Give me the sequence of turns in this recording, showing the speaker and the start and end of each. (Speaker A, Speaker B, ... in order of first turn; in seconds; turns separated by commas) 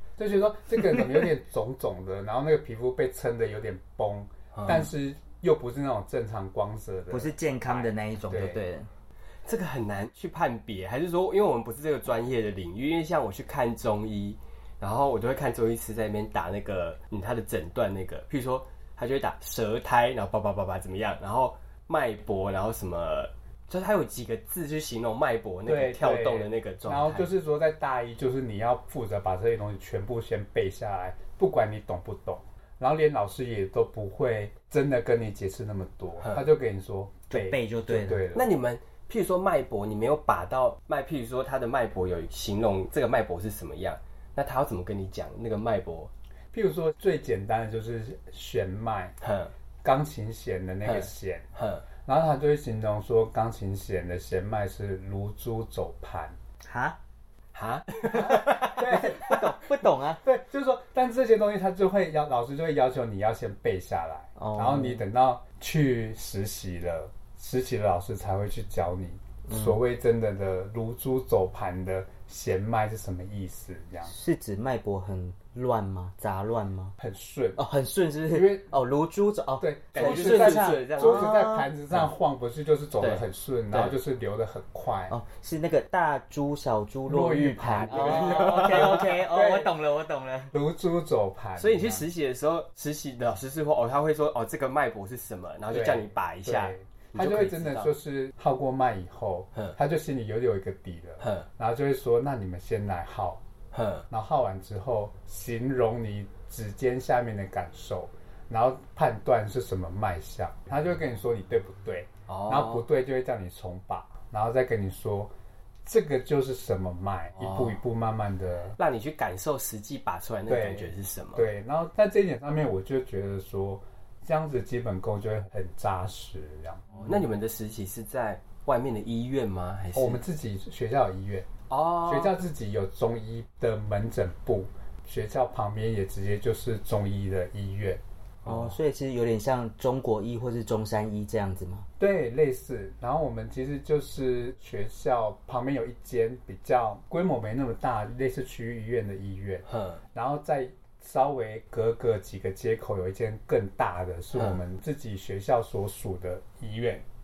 Speaker A: 0.2-8.6, Speaker B: 4.5-4.8, Speaker C: 7.1-8.9, Speaker B: 9.5-27.3, Speaker A: 25.7-38.5, Speaker C: 37.3-38.2, Speaker B: 38.3-46.1, Speaker A: 46.5-49.1, Speaker B: 49.2-49.5, Speaker A: 49.8-51.5, Speaker B: 50.9-51.9, Speaker A: 52.1-56.4, Speaker C: 56.6-57.0, Speaker B: 57.5-59.0, Speaker A: 58.5-59.5, Speaker C: 58.5-60.2, Speaker A: 60.2-74.1, Speaker C: 64.4-65.0, Speaker C: 74.1-77.0, Speaker A: 77.0-77.6, Speaker C: 77.6-81.7, Speaker A: 78.3-78.7, Speaker A: 79.6-85.2, Speaker B: 79.9-81.3, Speaker B: 83.0-84.0, Speaker C: 85.1-90.5, Speaker A: 87.1-89.7, Speaker B: 88.0-89.0, Speaker A: 90.5-92.0, Speaker B: 91.6-97.9, Speaker A: 95.7-103.4, Speaker B: 101.2-101.5, Speaker B: 103.7-104.1, Speaker A: 104.1-115.3, Speaker B: 112.3-112.8, Speaker A: 115.8-118.8, Speaker B: 117.4-117.7, Speaker B: 118.8-121.5, Speaker A: 120.5-127.0, Speaker B: 126.9-130.2, Speaker A: 129.9-131.5, Speaker B: 131.7-132.3, Speaker A: 132.1-138.0, Speaker B: 138.4-138.8, Speaker C: 138.4-141.9, Speaker A: 142.0-157.0, Speaker B: 149.7-150.0